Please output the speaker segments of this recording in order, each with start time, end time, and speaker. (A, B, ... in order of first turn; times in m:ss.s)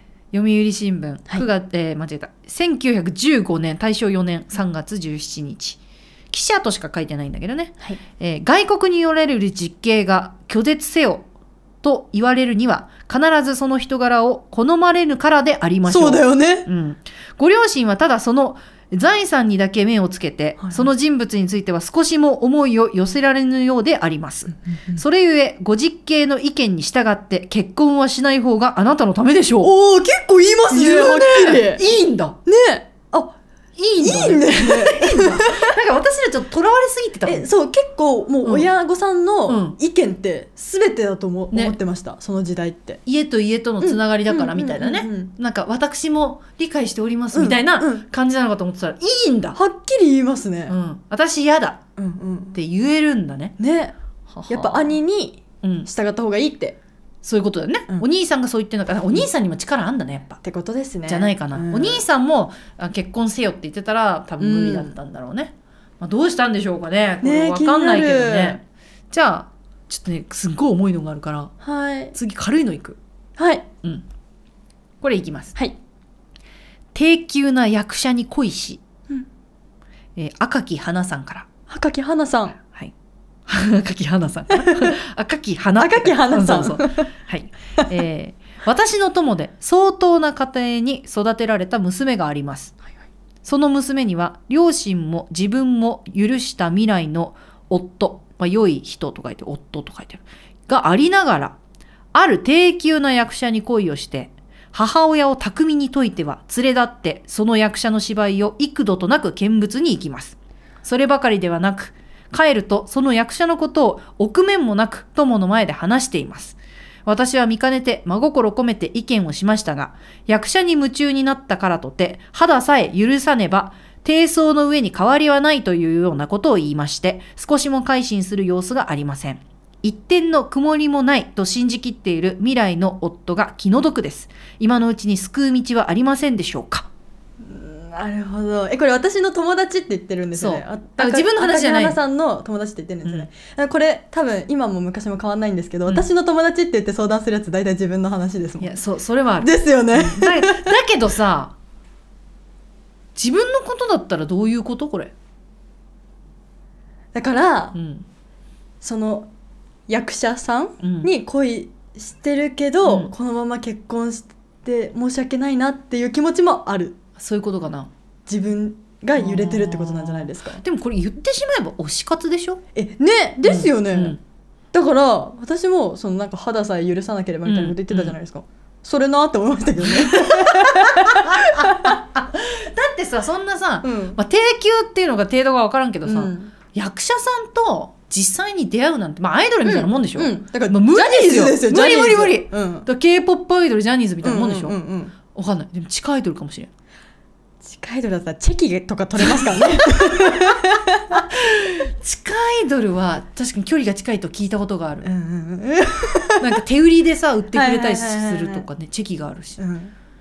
0:00.3-0:05.8 A
0:06.3-0:11.2 A
0:11.8-0:29.7 A
0:15.8-0:16.7 B
0:20.6-0:20.9 B
0:24.6-0:25.0 B
0:29.6-0:31.8 B
0:30.7-0:32.4 A
0:32.5-0:33.4 B
0:33.8-0:37.5 A
0:34.0-0:35.7 B
0:37.2-0:43.0 B
0:39.5-0:39.8 A
0:43.1-0:49.6 A
0:43.8-0:45.3 B
0:47.3-0:48.0 B
0:49.6-0:50.8 B
0:50.7-0:51.8 A
0:52.0-0:52.6 B
0:52.6-0:53.5 A
0:53.6-0:54.0 B
0:54.3-0:55.0 A
0:54.5-0:56.8 B
0:55.6-0:55.9 A
0:57.2-1:00.4 A
1:00.4-1:02.0 B
1:01.1-1:11.5 A
1:04.4-1:05.0 B
1:07.2-1:08.6 B
1:11.6-1:12.2 B
1:12.1-1:13.0 A
1:13.4-1:13.6 B
1:15.0-1:15.5 A
1:16.9-1:18.8 A
1:20.2-1:21.5 A
1:21.7-1:22.6 B
1:23.5-1:32.8 A
1:24.5-1:25.0 B
1:25.8-1:27.1 B
1:33.4-1:41.6 A
1:42.1-2:16.9 A
2:17.4-2:28.8 B
2:20.3-2:22.0 A
2:28.6-2:31.5 A
2:29.4-2:30.8 B
2:33.2-2:35.1 A
2:37.1-2:37.8 B
2:37.7-2:38.0 A
2:38.8-2:39.3 B
2:39.9-2:47.0 B
2:40.8-2:41.1 A
2:42.8-2:43.1 A
2:47.2-2:47.9 A
2:48.3-2:50.6 B
2:49.2-2:52.6 A
2:52.8-2:54.2 B
2:53.4-2:54.2 A
2:54.7-3:02.0 B
2:57.4-2:58.2 A
2:59.8-3:14.8 A
3:03.8-3:04.2 B
3:06.0-3:06.5 B
3:09.6-3:12.9 B
3:14.2-3:15.2 B
3:15.3-3:16.7 A
3:17.6-3:21.3 B
3:19.2-3:20.5 A
3:21.1-3:25.1 A
3:25.0-3:26.6 B
3:26.4-3:29.6 A
3:27.5-3:28.7 B
3:29.6-3:29.9 B